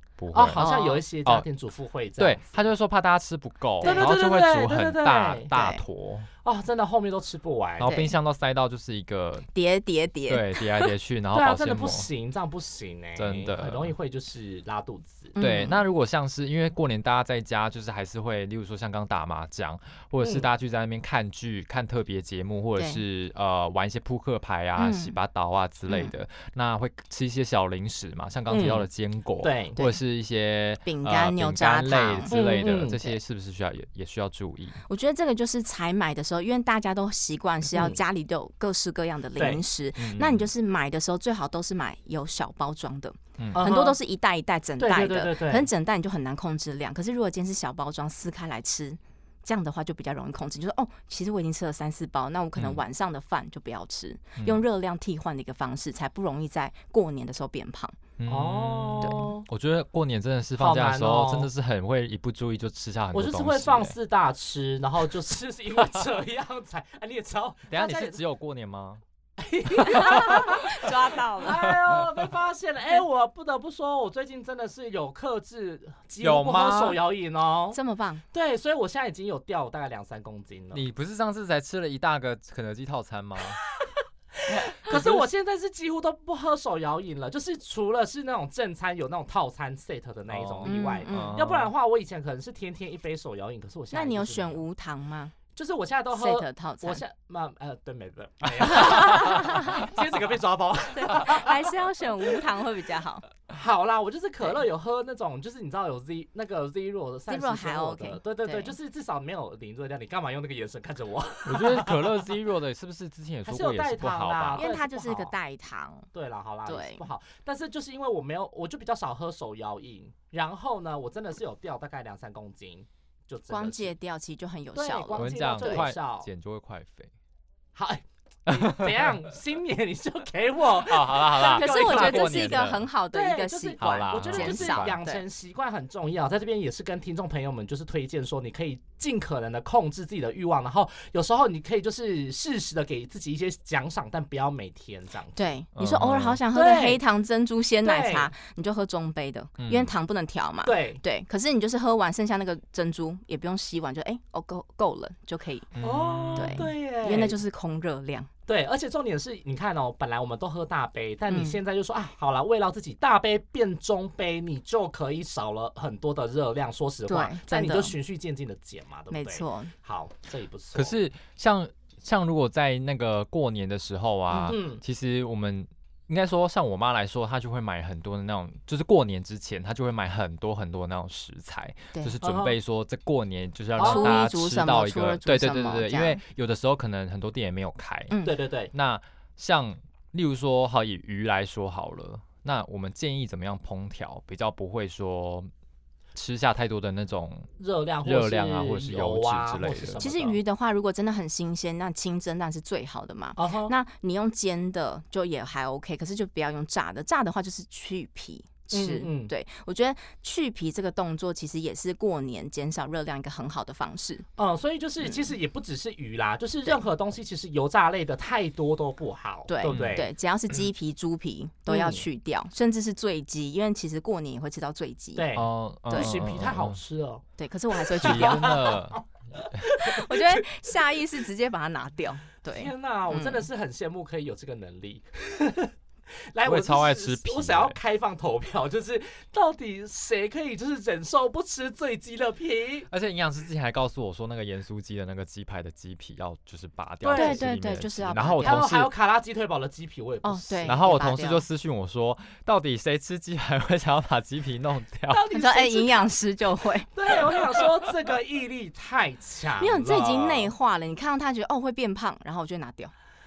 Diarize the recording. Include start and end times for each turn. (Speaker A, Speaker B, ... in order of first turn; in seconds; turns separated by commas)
Speaker A: 0.2-0.7, Speaker B: 0.3-2.6, Speaker C: 0.6-1.0, Speaker A: 2.2-6.3, Speaker C: 3.8-4.1, Speaker B: 3.8-5.5, Speaker C: 5.5-5.8, Speaker B: 6.4-7.9, Speaker A: 7.8-9.5, Speaker C: 7.8-8.1, Speaker C: 9.5-10.9, Speaker A: 10.3-12.1, Speaker B: 11.3-15.4, Speaker A: 13.2-13.9, Speaker C: 15.4-15.8, Speaker A: 15.4-34.8, Speaker C: 22.8-23.0, Speaker C: 24.8-25.2, Speaker B: 28.5-28.9, Speaker B: 29.4-29.9, Speaker C: 30.9-32.4, Speaker B: 32.3-33.0, Speaker C: 34.9-58.0, Speaker B: 37.7-38.0, Speaker B: 39.4-39.6, Speaker A: 40.0-40.5, Speaker A: 43.4-43.6, Speaker B: 43.5-44.0, Speaker B: 44.8-45.7, Speaker A: 52.6-52.8, Speaker A: 54.4-54.6, Speaker A: 58.2-64.0, Speaker B: 58.3-59.5, Speaker C: 59.0-59.3, Speaker B: 60.6-61.5, Speaker B: 63.1-68.2, Speaker A: 67.7-69.0, Speaker B: 69.4-77.8, Speaker C: 69.8-71.7, Speaker A: 69.8-70.9, Speaker A: 71.6-72.3, Speaker A: 76.2-77.0, Speaker C: 77.7-78.2, Speaker B: 78.3-80.9, Speaker A: 80.7-83.6, Speaker B: 84.4-94.6, Speaker A: 84.5-85.2, Speaker A: 90.3-91.7, Speaker C: 90.6-91.4, Speaker C: 93.9-95.4, Speaker B: 95.5-101.7, Speaker C: 96.1-97.0, Speaker A: 98.6-99.4, Speaker C: 98.7-99.9, Speaker C: 100.9-103.3, Speaker B: 103.5-112.2, Speaker C: 107.3-108.8, Speaker A: 111.5-114.7, Speaker B: 113.5-115.3, Speaker C: 114.6-116.1, Speaker B: 116.1-123.9, Speaker C: 116.7-117.0, Speaker C: 123.5-125.9, Speaker B: 124.8-126.3, Speaker A: 125.2-127.1, Speaker B: 127.8-132.6, Speaker A: 128.5-129.2, Speaker A: 130.7-132.9, Speaker C: 131.4-135.2, Speaker B: 133.1-145.4, Speaker A: 133.8-135.0, Speaker C: 145.4-155.7, Speaker A: 145.8-146.4, Speaker B: 146.5-147.0, Speaker B: 147.8-148.3, Speaker A: 149.6-149.9, Speaker B: 150.7-151.0, Speaker A: 155.7-156.7, Speaker B: 155.8-157.4, Speaker C: 156.3-158.3, Speaker B: 158.5-170.9, Speaker C: 161.3-161.6, Speaker C: 167.1-168.0, Speaker C: 169.1-169.7, Speaker A: 170.7-188.1, Speaker C: 174.3-174.6, Speaker B: 174.5-174.8, Speaker B: 182.2-182.6, Speaker C: 183.8-186.2, Speaker B: 183.8-184.2, Speaker C: 188.1-188.4, Speaker B: 188.2-188.7, Speaker A: 188.7-195.5, Speaker A: 196.2-197.5, Speaker B: 197.6-200.4, Speaker A: 198.0-200.0, Speaker C: 200.0-214.3, Speaker B: 203.4-203.7, Speaker B: 208.7-209.3, Speaker B: 214.4-220.1, Speaker C: 219.5-225.3, Speaker A: 219.7-220.1, Speaker B: 221.7-222.1, Speaker B: 225.2-231.0, Speaker A: 225.3-226.8, Speaker C: 225.9-226.2, Speaker C: 227.4-228.6, Speaker A: 228.0-229.7, Speaker C: 229.7-233.5, Speaker B: 232.5-235.7, Speaker B: 236.3-242.9, Speaker A: 236.4-237.8, Speaker A: 242.9-248.9, Speaker B: 247.0-247.4, Speaker C: 247.1-248.7, Speaker B: 248.4-250.8, Speaker C: 250.2-251.4, Speaker A: 250.7-255.3, Speaker B: 255.1-256.1, Speaker C: 255.3-256.9, Speaker B: 256.9-260.5, Speaker A: 257.1-257.7, Speaker C: 259.6-262.9